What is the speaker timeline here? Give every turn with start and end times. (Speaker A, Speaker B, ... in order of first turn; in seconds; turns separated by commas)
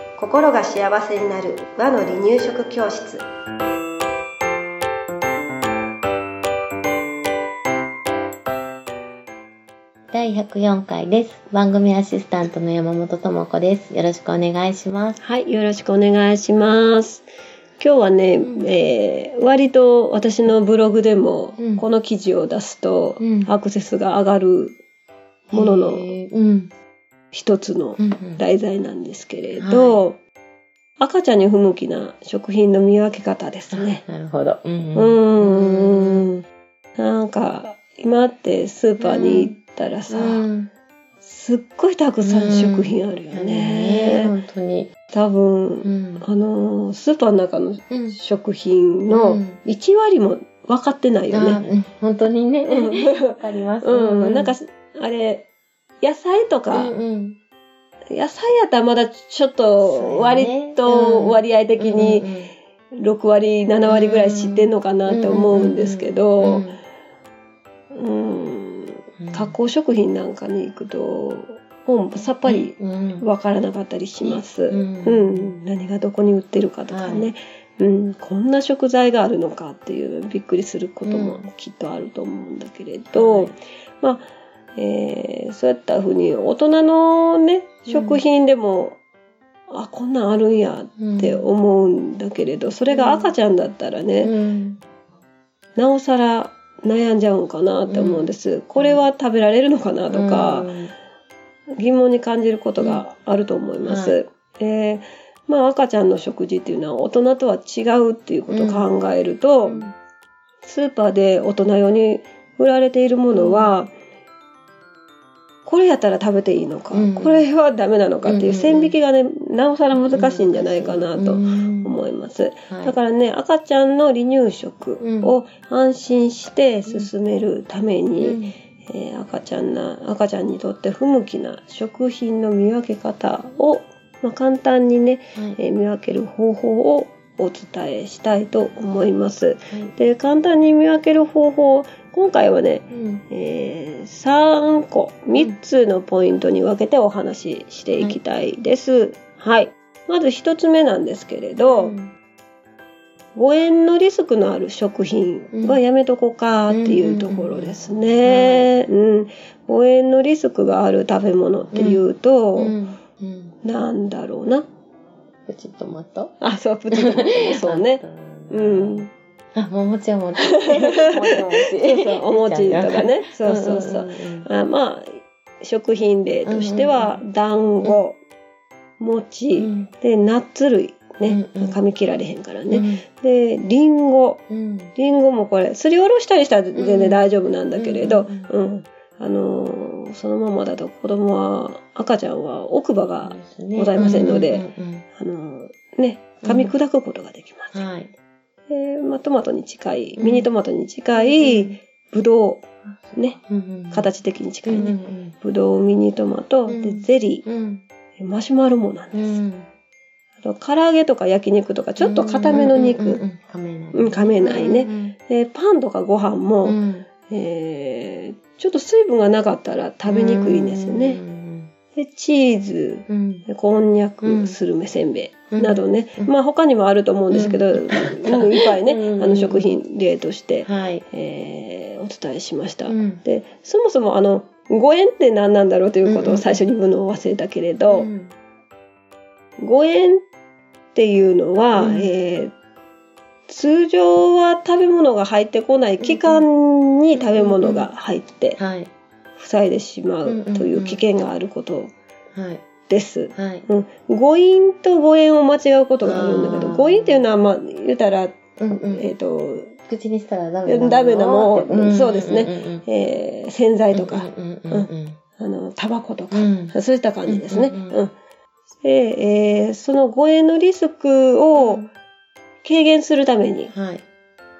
Speaker A: 0.2-3.2, Speaker B: 10.1-15.2, Speaker A: 15.2-17.2, Speaker A: 17.8-24.8, Speaker B: 18.4-18.7, Speaker B: 21.6-21.8, Speaker B: 23.2-23.5, Speaker A: 25.5-26.1, Speaker B: 25.5-26.7, Speaker A: 27.3-30.2, Speaker B: 28.0-28.4, Speaker B: 29.6-30.0, Speaker A: 31.0-34.0, Speaker B: 33.7-36.3, Speaker A: 34.9-36.4, Speaker A: 37.0-40.5, Speaker B: 39.0-39.5, Speaker B: 40.1-40.7, Speaker A: 41.2-44.3, Speaker B: 42.2-44.9, Speaker A: 45.1-51.6, Speaker B: 45.8-46.2, Speaker B: 47.9-48.2, Speaker B: 49.1-49.6, Speaker B: 51.3-54.5, Speaker A: 52.6-55.5, Speaker A: 56.0-56.9, Speaker B: 56.7-57.4, Speaker A: 58.1-62.3, Speaker B: 59.8-62.5, Speaker A: 62.9-66.6, Speaker B: 63.9-66.8, Speaker A: 67.9-89.0, Speaker B: 69.2-69.5, Speaker B: 72.5-73.2, Speaker B: 74.2-75.6, Speaker B: 76.9-77.3, Speaker B: 81.0-81.5, Speaker B: 83.1-83.5, Speaker B: 87.9-88.2, Speaker A: 89.7-94.3, Speaker B: 91.0-91.4, Speaker B: 92.9-93.3, Speaker B: 94.2-94.8, Speaker A: 95.8-100.7, Speaker B: 97.9-99.0, Speaker B: 100.1-100.9, Speaker A: 101.8-109.9, Speaker B: 103.8-104.2, Speaker B: 108.5-108.9, Speaker B: 109.6-109.9, Speaker A: 110.6-113.9, Speaker B: 113.3-113.7, Speaker A: 115.7-151.9, Speaker B: 116.9-117.5, Speaker B: 118.2-118.9, Speaker B: 119.9-121.9, Speaker B: 122.7-123.0, Speaker B: 125.0-125.3, Speaker B: 128.2-128.6, Speaker B: 142.9-143.2, Speaker B: 151.7-152.1, Speaker A: 153.3-162.8, Speaker B: 155.5-155.8, Speaker B: 156.7-158.7, Speaker B: 161.7-162.0, Speaker B: 162.6-163.5, Speaker A: 163.6-164.7, Speaker B: 165.5-166.3, Speaker A: 166.4-169.1, Speaker B: 166.9-174.5, Speaker A: 170.5-178.2, Speaker B: 176.4-177.2, Speaker A: 179.0-184.4, Speaker B: 179.6-179.9, Speaker B: 181.3-181.8, Speaker B: 182.7-183.0, Speaker B: 184.5-184.9, Speaker A: 184.9-197.8, Speaker B: 186.7-187.2, Speaker B: 187.8-188.5, Speaker B: 193.2-195.0, Speaker B: 196.4-196.7, Speaker B: 197.7-198.1, Speaker A: 198.7-202.6, Speaker B: 200.2-200.5, Speaker B: 201.1-201.8, Speaker B: 202.9-204.1, Speaker A: 203.9-207.4, Speaker B: 204.7-205.3, Speaker B: 206.7-207.8, Speaker A: 208.2-209.4, Speaker B: 209.1-209.7, Speaker A: 210.4-213.2, Speaker B: 212.0-215.1, Speaker A: 213.9-221.2, Speaker B: 216.6-217.1, Speaker B: 220.1-221.7, Speaker A: 221.9-238.1, Speaker B: 223.1-223.4, Speaker B: 224.2-224.5, Speaker B: 225.5-226.3, Speaker B: 227.3-229.7, Speaker B: 230.6-231.0, Speaker B: 232.8-233.2, Speaker B: 236.0-236.7, Speaker B: 237.9-238.3, Speaker A: 239.6-240.2, Speaker A: 240.9-242.5, Speaker B: 241.7-242.1, Speaker A: 243.5-248.6, Speaker B: 246.0-246.5, Speaker B: 247.2-247.9, Speaker B: 248.6-248.9, Speaker A: 249.4-251.9, Speaker B: 250.2-251.0, Speaker B: 252.3-252.6, Speaker A: 252.9-258.3, Speaker B: 253.3-253.7, Speaker B: 256.0-257.2, Speaker B: 258.6-259.0, Speaker A: 258.9-259.7, Speaker B: 259.9-262.8, Speaker A: 260.6-268.1, Speaker B: 263.9-265.2, Speaker B: 266.3-266.7, Speaker B: 267.3-267.9, Speaker A: 268.8-271.8, Speaker B: 271.5-271.9, Speaker A: 272.6-273.7, Speaker B: 273.7-274.0